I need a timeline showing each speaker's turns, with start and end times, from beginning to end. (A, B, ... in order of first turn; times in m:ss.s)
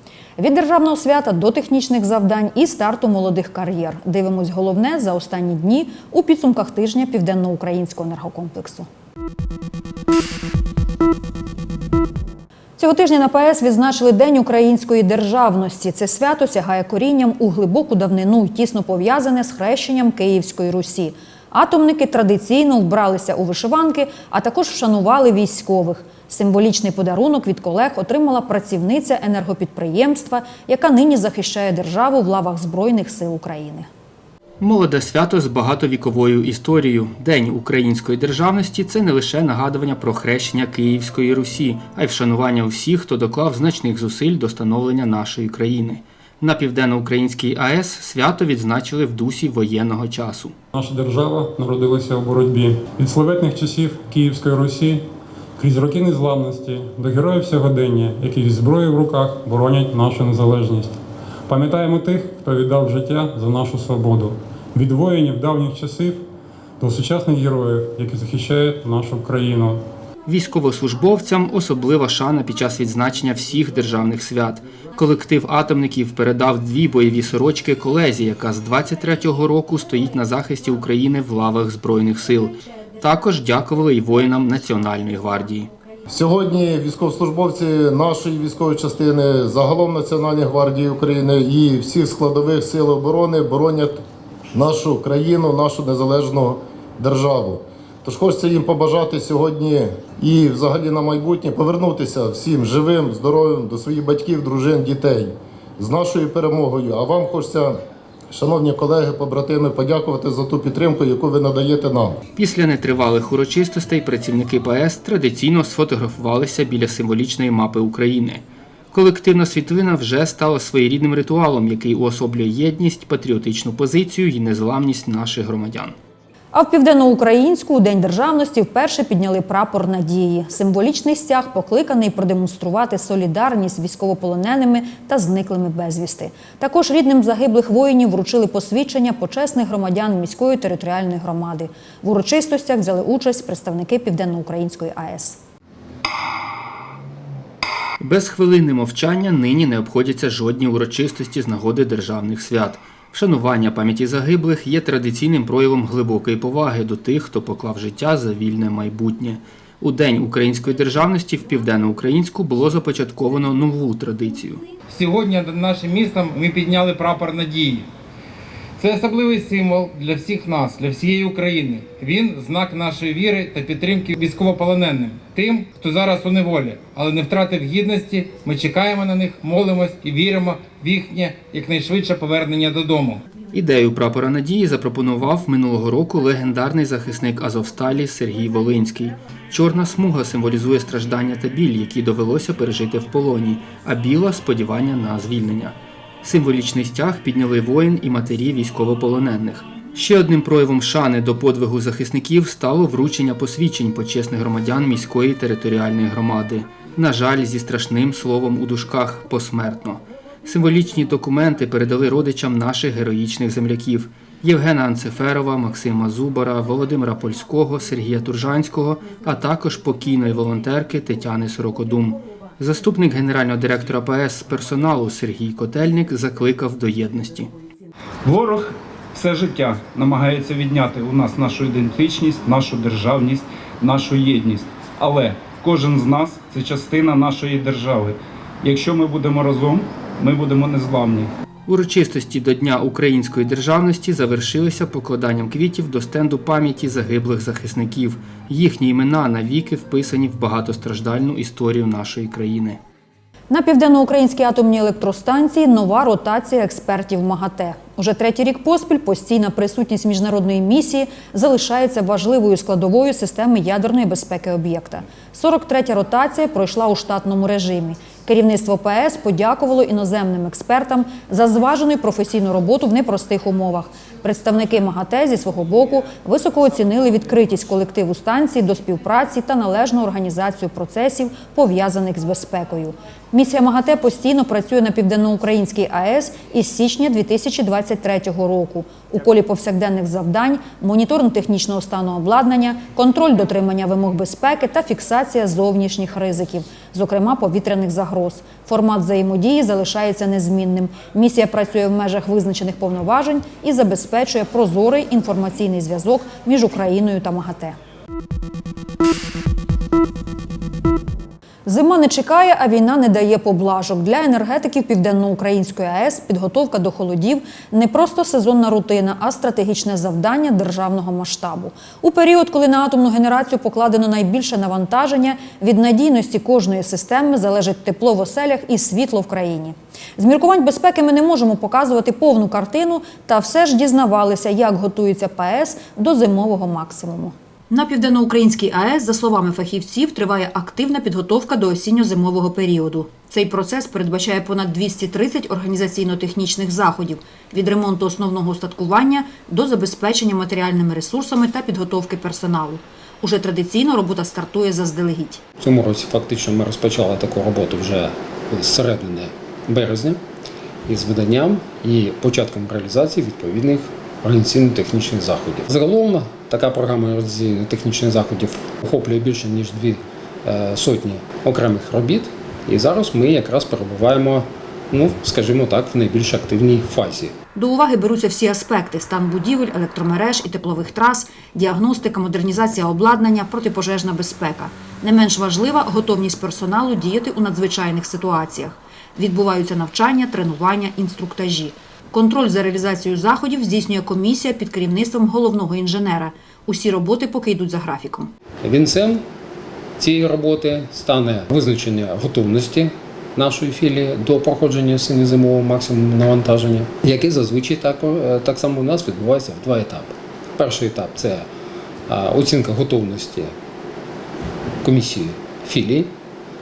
0:00.4-0:08.9 A
0:12.8-0:33.9 A
0:34.6-0:50.6 B
0:50.7-0:55.0 C
0:55.6-1:00.9 C
1:01.5-1:06.2 C
1:06.8-1:09.8 C
1:10.2-1:25.7 B
1:26.1-1:34.0 D
1:34.5-1:47.8 D
1:48.3-1:52.2 D
1:52.4-2:06.0 B
2:06.5-2:25.4 A
2:28.0-2:44.6 B
2:44.9-2:47.9 E
2:48.8-3:03.2 E
3:03.5-3:47.5 B
3:48.2-4:01.3 F
4:01.7-4:12.8 B
4:13.5-5:07.8 A
5:11.6-5:55.4 A
5:55.6-6:00.2 G
6:00.9-6:17.3 G
6:17.5-6:38.3 A
6:38.6-6:39.2 G
6:40.0-6:51.4 G
6:52.1-6:53.5 G
6:54.8-6:56.1 G